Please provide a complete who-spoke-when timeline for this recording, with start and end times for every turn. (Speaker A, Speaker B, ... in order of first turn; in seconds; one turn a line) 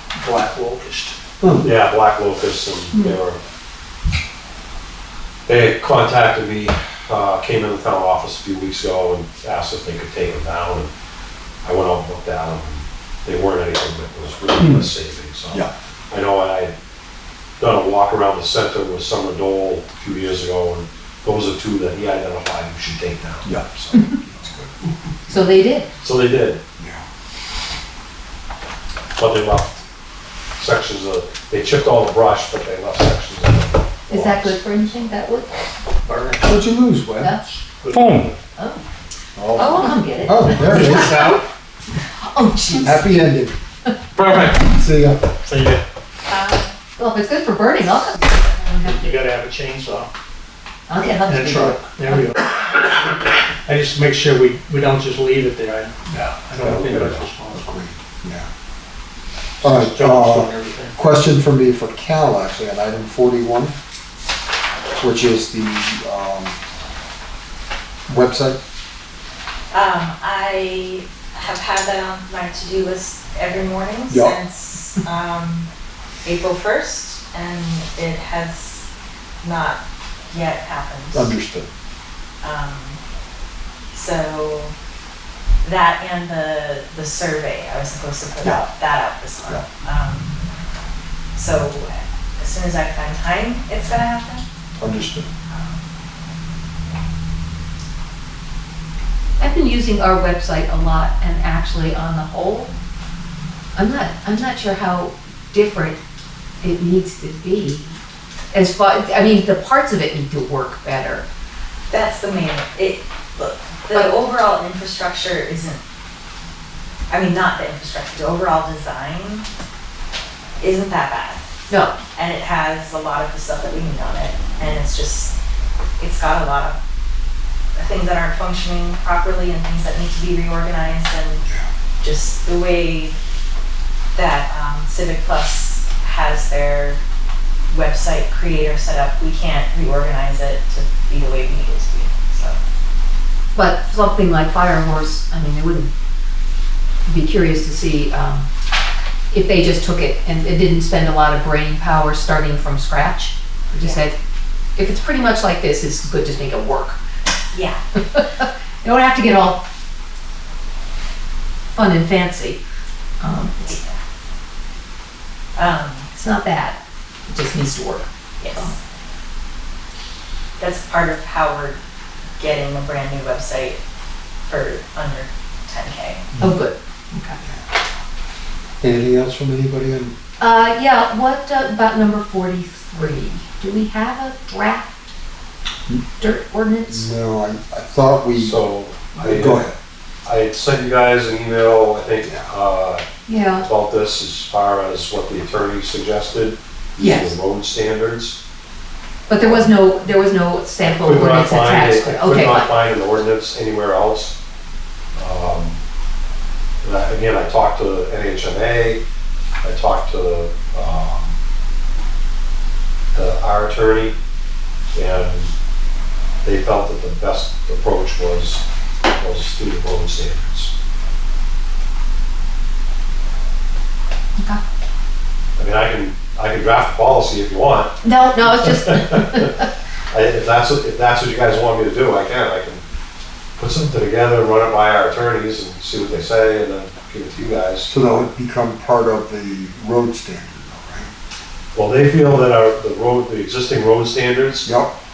Speaker A: 0.1-1.1
Speaker B: 1.4-1.7
Speaker C: 1.6-3.4
Speaker C: 5.5-10.9
Speaker C: 11.6-16.7
Speaker C: 17.6-24.6
Speaker B: 23.4-24.7
Speaker D: 23.9-24.2
Speaker D: 25.3-25.9
Speaker C: 26.0-26.6
Speaker B: 26.8-27.0
Speaker C: 29.2-29.8
Speaker C: 30.6-34.6
Speaker D: 34.1-35.5
Speaker A: 36.0-36.5
Speaker B: 36.4-37.4
Speaker A: 37.6-38.3
Speaker D: 38.5-38.8
Speaker B: 39.4-41.4
Speaker D: 39.5-41.3
Speaker A: 40.5-41.4
Speaker D: 42.0-43.1
Speaker B: 42.7-43.6
Speaker A: 44.2-44.5
Speaker D: 44.3-44.6
Speaker B: 44.6-45.3
Speaker A: 45.5-45.8
Speaker E: 46.3-46.7
Speaker D: 47.0-49.1
Speaker A: 48.8-50.1
Speaker D: 50.9-52.3
Speaker A: 51.2-57.6
Speaker C: 56.6-57.2
Speaker B: 57.5-58.5
Speaker B: 59.6-63.7
Speaker A: 59.6-61.0
Speaker B: 65.0-66.5
Speaker B: 68.1-68.6
Speaker E: 69.7-75.7
Speaker B: 74.1-74.3
Speaker E: 76.2-78.9
Speaker E: 79.4-81.3
Speaker B: 81.1-81.7
Speaker E: 82.4-83.0
Speaker E: 83.9-84.7
Speaker E: 85.6-90.4
Speaker E: 91.3-94.4
Speaker B: 94.8-95.3
Speaker E: 95.5-95.7
Speaker D: 99.4-102.7
Speaker D: 103.8-106.0
Speaker D: 106.6-108.0
Speaker D: 108.5-111.2
Speaker E: 111.9-115.8
Speaker E: 117.1-119.5
Speaker E: 120.6-121.5
Speaker D: 121.7-122.0
Speaker E: 122.1-125.3
Speaker E: 126.0-126.8
Speaker E: 127.8-131.4
Speaker E: 132.0-133.2
Speaker E: 134.1-137.0
Speaker E: 137.7-142.6
Speaker D: 143.5-145.9
Speaker D: 147.1-148.5
Speaker D: 149.3-154.2
Speaker E: 153.7-154.1
Speaker D: 154.8-157.0
Speaker E: 157.5-157.8
Speaker D: 157.9-159.6
Speaker D: 161.7-162.6
Speaker D: 163.2-163.8
Speaker E: 163.6-164.0
Speaker E: 165.6-166.1
Speaker D: 166.1-168.7
Speaker E: 168.4-168.8
Speaker E: 170.6-171.8
Speaker E: 172.4-173.8
Speaker E: 174.4-176.2
Speaker D: 176.4-177.4
Speaker B: 178.8-180.1
Speaker D: 180.4-185.1
Speaker D: 186.2-187.1
Speaker B: 186.9-188.6
Speaker C: 188.3-189.7
Speaker B: 189.1-189.7
Speaker C: 190.2-193.0
Speaker B: 192.2-192.5
Speaker D: 193.3-193.7
Speaker C: 193.6-198.4
Speaker D: 197.0-197.4
Speaker D: 199.3-202.8
Speaker C: 199.4-199.7
Speaker C: 200.9-204.3
Speaker C: 205.1-205.8
Speaker C: 206.8-209.0
Speaker C: 209.6-211.3
Speaker C: 213.1-214.2
Speaker C: 214.9-215.5
Speaker C: 216.4-220.7
Speaker C: 225.6-229.5
Speaker D: 228.0-229.7
Speaker C: 230.1-232.8
Speaker C: 233.6-237.9
Speaker B: 237.9-241.1
Speaker C: 241.7-244.7
Speaker B: 244.6-244.9